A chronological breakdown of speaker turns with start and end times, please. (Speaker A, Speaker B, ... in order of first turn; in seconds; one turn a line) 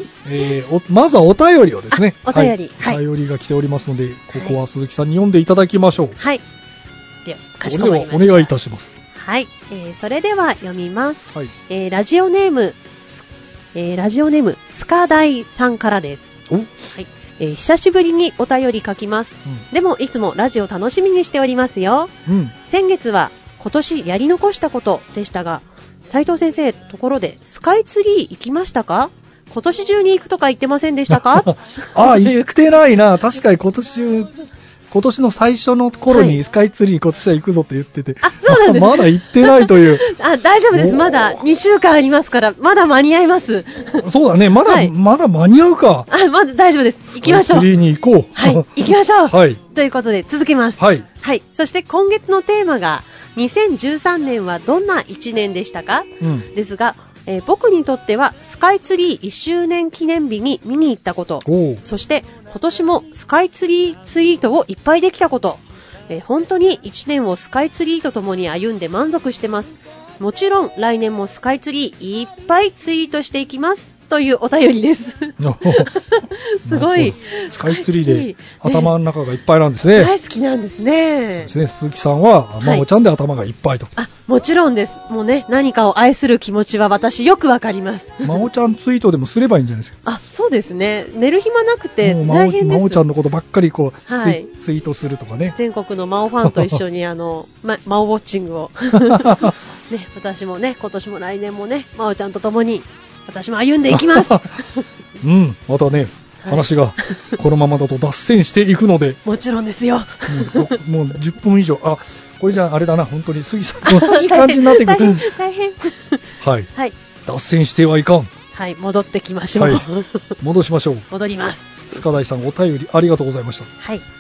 Speaker A: 0.2-6.2
Speaker B: 1.9-3.0
Speaker B: 7.2-8.5
Speaker A: 7.6-8.9
Speaker B: 9.2-16.3
Speaker A: 16.5-16.8
Speaker B: 16.9-22.1
Speaker A: 22.2-22.5
Speaker B: 22.6-32.5
Speaker A: 31.1-34.3
Speaker A: 34.9-40.1
Speaker B: 36.1-36.4
Speaker B: 38.2-44.0
Speaker A: 40.7-41.3
Speaker A: 44.0-46.1
Speaker B: 44.6-44.9
Speaker B: 46.1-47.7
Speaker A: 47.1-49.6
Speaker B: 48.4-78.9
Speaker A: 50.8-51.0
Speaker A: 56.2-56.5
Speaker A: 61.4-61.8
Speaker A: 75.4-75.9
Speaker A: 76.7-80.1
Speaker B: 79.9-81.5
Speaker A: 81.4-83.9
Speaker B: 84.0-88.4
Speaker A: 88.2-90.0
Speaker B: 90.0-93.0
Speaker A: 92.0-95.6
Speaker B: 94.1-94.5
Speaker B: 95.5-104.8
Speaker A: 96.4-96.8
Speaker A: 99.0-99.5
Speaker A: 103.9-104.6
Speaker A: 105.2-109.2
Speaker B: 106.4-107.4
Speaker B: 109.2-110.8
Speaker A: 110.3-115.3
Speaker B: 113.8-116.2
Speaker A: 116.4-116.7
Speaker A: 117.2-118.3
Speaker B: 118.5-120.3
Speaker A: 119.6-119.9
Speaker A: 120.4-121.1
Speaker B: 121.1-121.8
Speaker A: 121.9-123.7